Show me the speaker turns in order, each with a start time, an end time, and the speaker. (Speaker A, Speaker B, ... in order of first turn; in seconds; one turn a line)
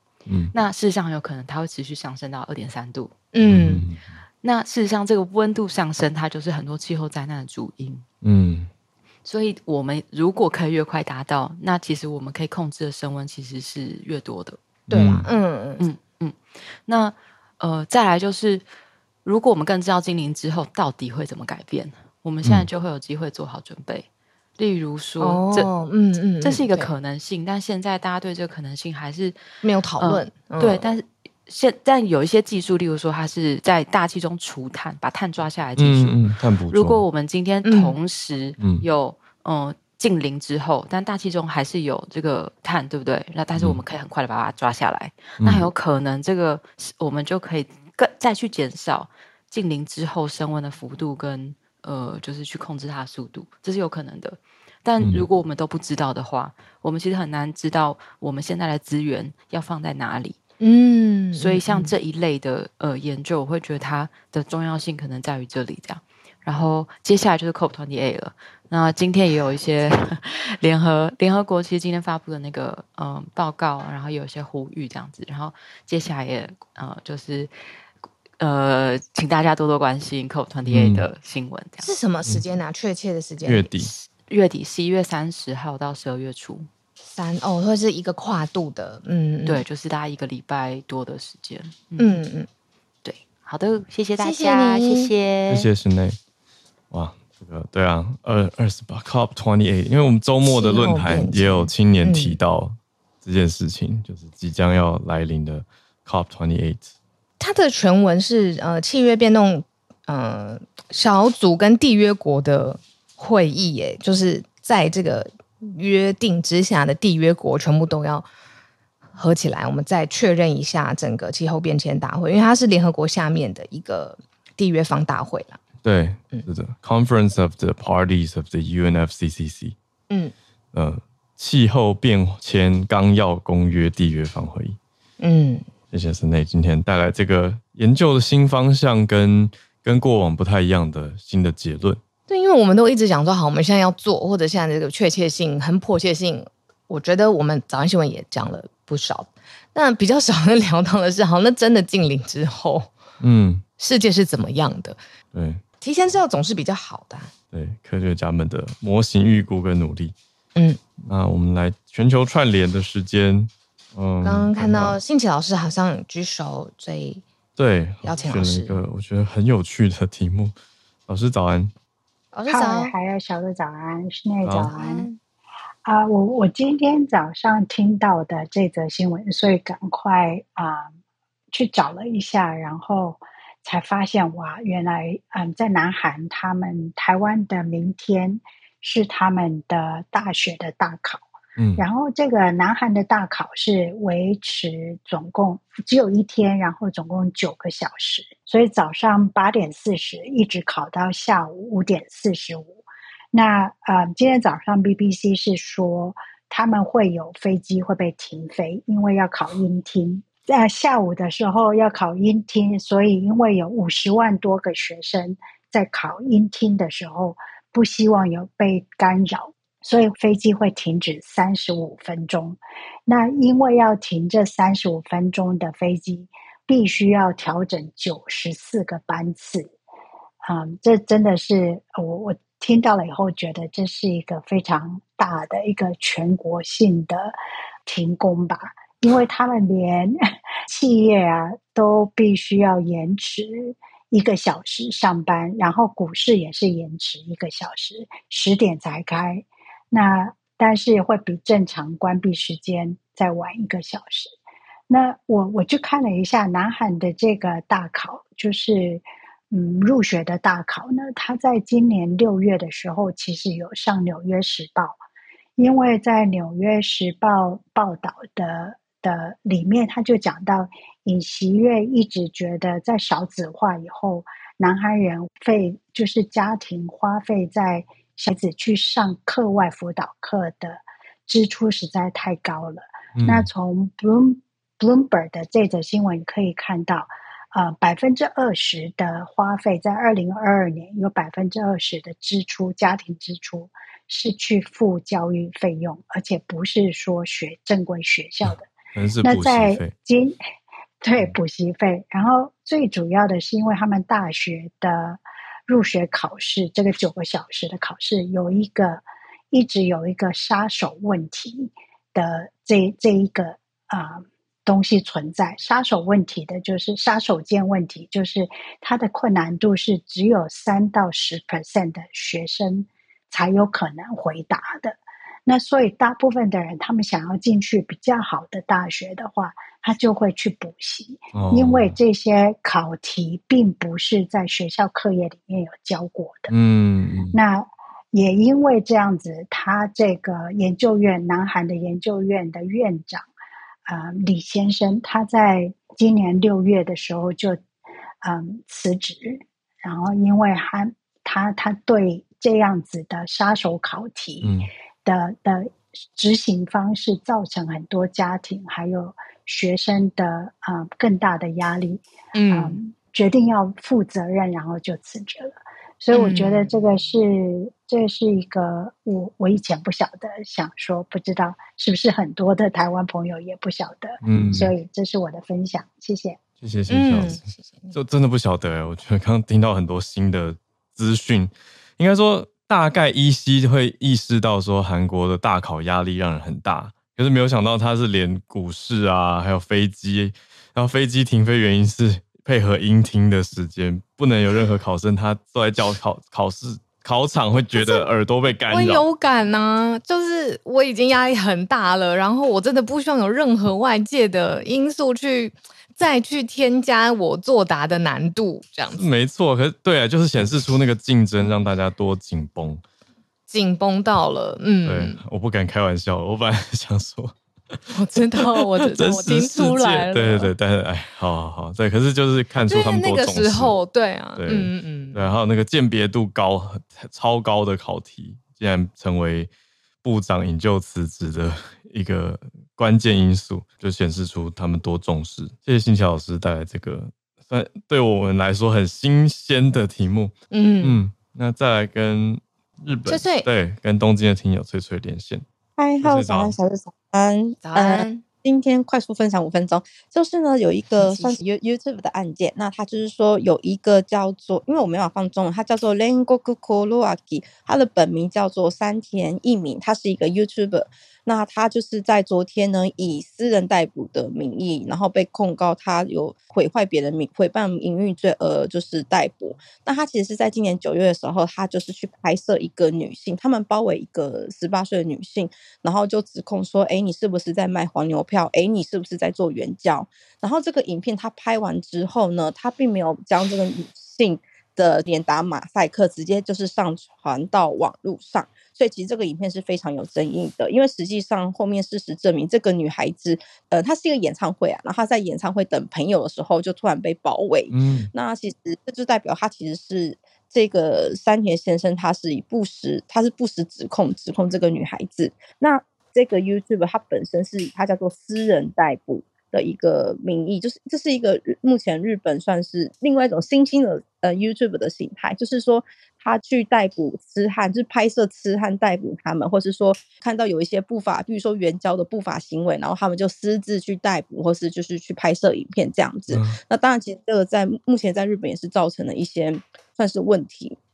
Speaker A: 0.3-0.5
Speaker B: 0.5-3.1
Speaker C: 3.3-3.9
Speaker A: 3.5-4.1
Speaker B: 4.4-8.0
Speaker A: 8.2-8.7
Speaker B: 9.2-14.6
Speaker C: 14.9-15.8
Speaker A: 14.9-15.2
Speaker B: 15.8-18.6
Speaker B: 19.2-24.1
Speaker B: 24.6-25.7
Speaker C: 25.2-26.9
Speaker B: 26.4-29.4
Speaker C: 29.6-30.9
Speaker B: 30.0-36.2
Speaker A: 35.8-37.0
Speaker B: 36.7-60.4
Speaker C: 37.6-38.0
Speaker A: 38.6-38.8
Speaker A: 45.4-45.7
Speaker C: 60.6-61.9
Speaker B: 61.3-77.5
Speaker B: 78.4-81.9
Speaker A: 80.7-81.1
Speaker C: 81.8-83.7
Speaker A: 83.4-83.9
Speaker B: 84.0-86.7
Speaker C: 87.1-89.6
Speaker B: 89.4-92.2
Speaker C: 92.0-92.5
Speaker B: 93.0-95.7
Speaker C: 94.2-95.1
Speaker A: 95.5-96.2
Speaker A: 96.9-106.9
Speaker C: 100.4-102.4
Speaker C: 107.4-118.3
Speaker C: 119.1-125.6
Speaker A: 125.8-129.7
Speaker A: 130.7-134.8
Speaker C: 135.2-135.7
Speaker A: 135.9-142.0
Speaker C: 142.3-152.9
Speaker A: 153.2-153.6
Speaker C: 153.8-155.0
Speaker A: 155.3-155.6
Speaker C: 155.8-157.3
Speaker A: 157.5-160.1
Speaker A: 161.0-165.0
Speaker C: 164.2-167.2
Speaker A: 167.6-170.5
Speaker C: 168.0-168.8
Speaker A: 171.1-171.7
Speaker C: 172.3-172.9
Speaker D: 172.5-175.1
Speaker A: 174.4-174.7
Speaker C: 174.7-175.2
Speaker D: 175.8-180.9
Speaker D: 181.5-191.3
Speaker A: 191.6-191.8
Speaker D: 191.8-202.8
Speaker D: 203.3-229.7
Speaker D: 230.4-240.1
Speaker D: 240.7-254.3
Speaker D: 254.9-265.0
Speaker D: 265.6-298.7
Speaker A: 283.1-283.5
Speaker A: 298.5-299.9
Speaker D: 299.2-300.4
Speaker D: 301.0-336.5
Speaker A: 331.3-332.0
Speaker A: 336.5-337.4
Speaker D: 337.3-343.3
Speaker D: 343.9-347.6
Speaker D: 348.2-376.4
Speaker A: 354.4-354.7
Speaker C: 362.3-362.8
Speaker C: 366.1-366.7
Speaker A: 374.2-374.7
Speaker A: 376.6-377.4
Speaker C: 376.9-377.9
Speaker A: 377.9-399.0
Speaker C: 397.7-398.0
Speaker C: 398.7-409.1
Speaker A: 408.9-412.8
Speaker C: 413.5-415.2
Speaker A: 414.8-417.4
Speaker C: 417.9-420.5
Speaker A: 418.2-423.7
Speaker C: 422.6-425.3
Speaker A: 424.4-429.5
Speaker A: 430.0-445.4
Speaker C: 440.5-441.0
Speaker C: 443.1-443.5
Speaker E: 445.8-530.8
Speaker A: 446.0-446.6
Speaker C: 447.6-448.2
Speaker C: 450.9-451.4
Speaker A: 497.7-498.1
Speaker A: 526.3-526.6